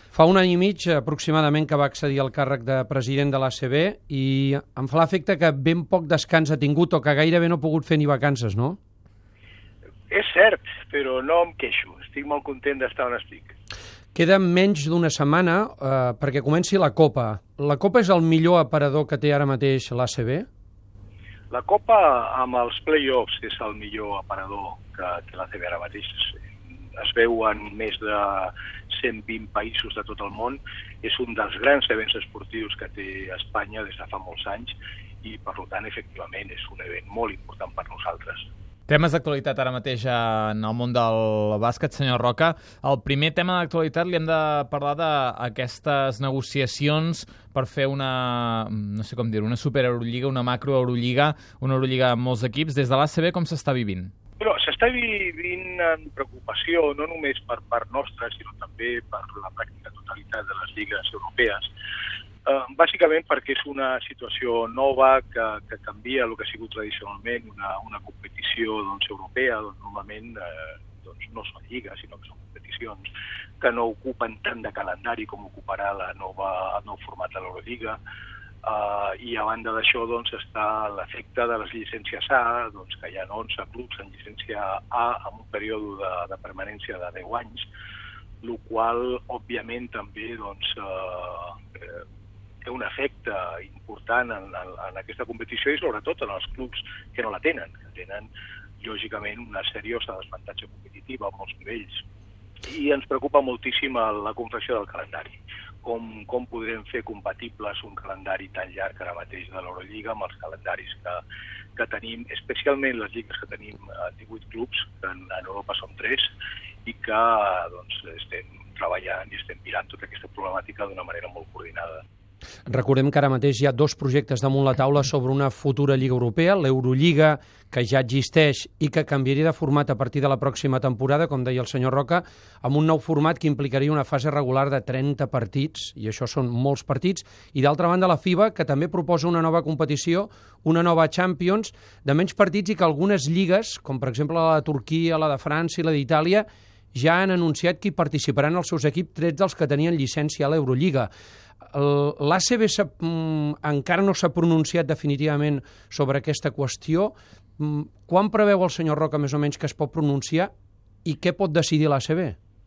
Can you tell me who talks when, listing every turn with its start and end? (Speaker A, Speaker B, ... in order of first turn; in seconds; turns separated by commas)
Speaker A: 0.1-8.8, Speaker B: 10.1-13.5, Speaker A: 14.1-20.5, Speaker B: 21.5-26.4, Speaker B: 27.0-38.5, Speaker C: 38.9-54.1, Speaker B: 54.4-61.7, Speaker B: 62.5-73.1, Speaker B: 73.6-78.0, Speaker B: 78.6-87.7, Speaker B: 88.4-92.0, Speaker B: 92.6-98.3, Speaker B: 98.8-102.0, Speaker B: 102.7-111.2, Speaker B: 111.8-116.3, Speaker B: 116.8-122.0, Speaker A: 122.7-151.1, Speaker A: 151.7-160.5, Speaker A: 161.0-162.3